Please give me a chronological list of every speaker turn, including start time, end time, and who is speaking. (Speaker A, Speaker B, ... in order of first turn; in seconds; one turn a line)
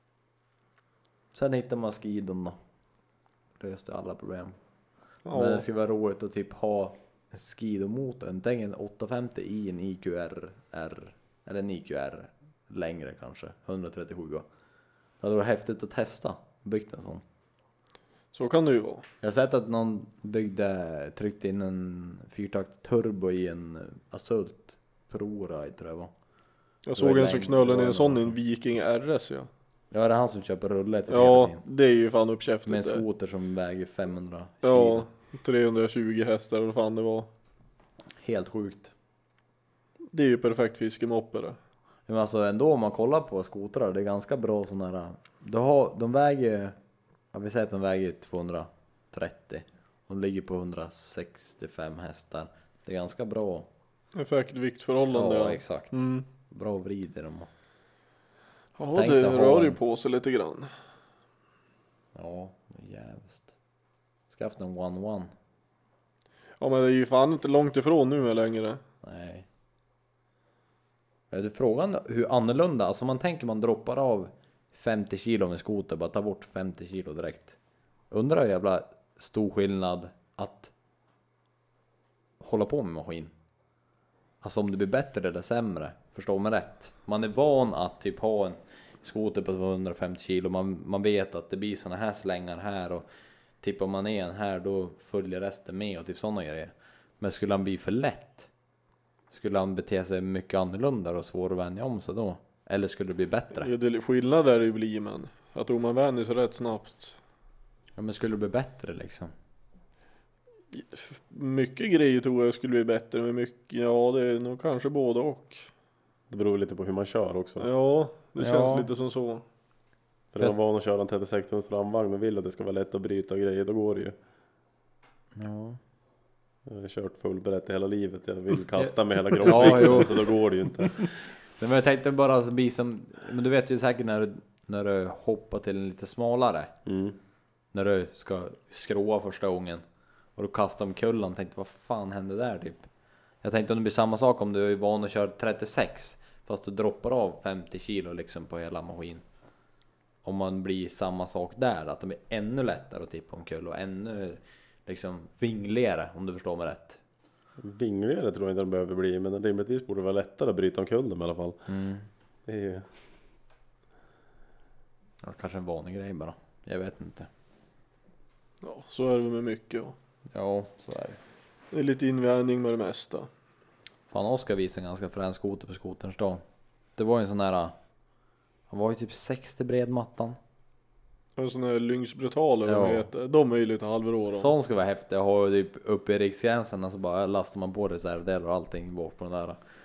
Speaker A: 1.3-2.6
Speaker A: 3.6-4.6
Speaker B: 5.2-5.7
Speaker A: 5.3-14.4
Speaker A: 15.2-17.2
Speaker B: 18.3-19.1
Speaker A: 19.2-26.1
Speaker B: 26.9-29.5
Speaker A: 27.0-28.4
Speaker A: 29.9-31.6
Speaker B: 31.1-33.0
Speaker A: 32.7-35.1
Speaker B: 34.6-37.3
Speaker A: 38.2-38.9
Speaker B: 40.1-41.6
Speaker A: 42.1-46.8
Speaker A: 47.3-53.7
Speaker B: 54.1-56.2
Speaker A: 55.1-57.5
Speaker B: 58.8-60.7
Speaker A: 59.0-59.8
Speaker A: 62.1-63.5
Speaker A: 64.3-65.3
Speaker B: 66.6-68.8
Speaker A: 69.0-69.5
Speaker A: 71.3-77.6
Speaker A: 78.1-80.7
Speaker A: 82.4-83.3
Speaker A: 84.4-93.0
Speaker A: 93.6-98.5
Speaker A: 99.3-103.7
Speaker B: 103.6-107.2
Speaker A: 108.0-109.3
Speaker B: 110.7-115.7
Speaker C: 116.3-117.7
Speaker B: 117.6-119.4
Speaker A: 118.4-118.9
Speaker C: 120.3-124.1
Speaker A: 125.3-125.8
Speaker C: 126.7-131.1
Speaker A: 128.8-130.2
Speaker A: 131.6-136.7
Speaker C: 136.9-137.2
Speaker A: 137.7-139.8
Speaker A: 140.4-142.8
Speaker A: 143.4-149.2
Speaker A: 150.2-157.0
Speaker C: 157.6-161.6
Speaker A: 161.7-162.1
Speaker C: 162.5-162.9
Speaker A: 165.2-167.3
Speaker B: 168.6-169.9
Speaker A: 170.3-171.2
Speaker B: 171.7-173.3
Speaker A: 174.1-176.4
Speaker A: 177.0-177.7
Speaker A: 178.7-180.4
Speaker B: 181.4-184.5
Speaker A: 182.7-183.1
Speaker A: 184.3-189.6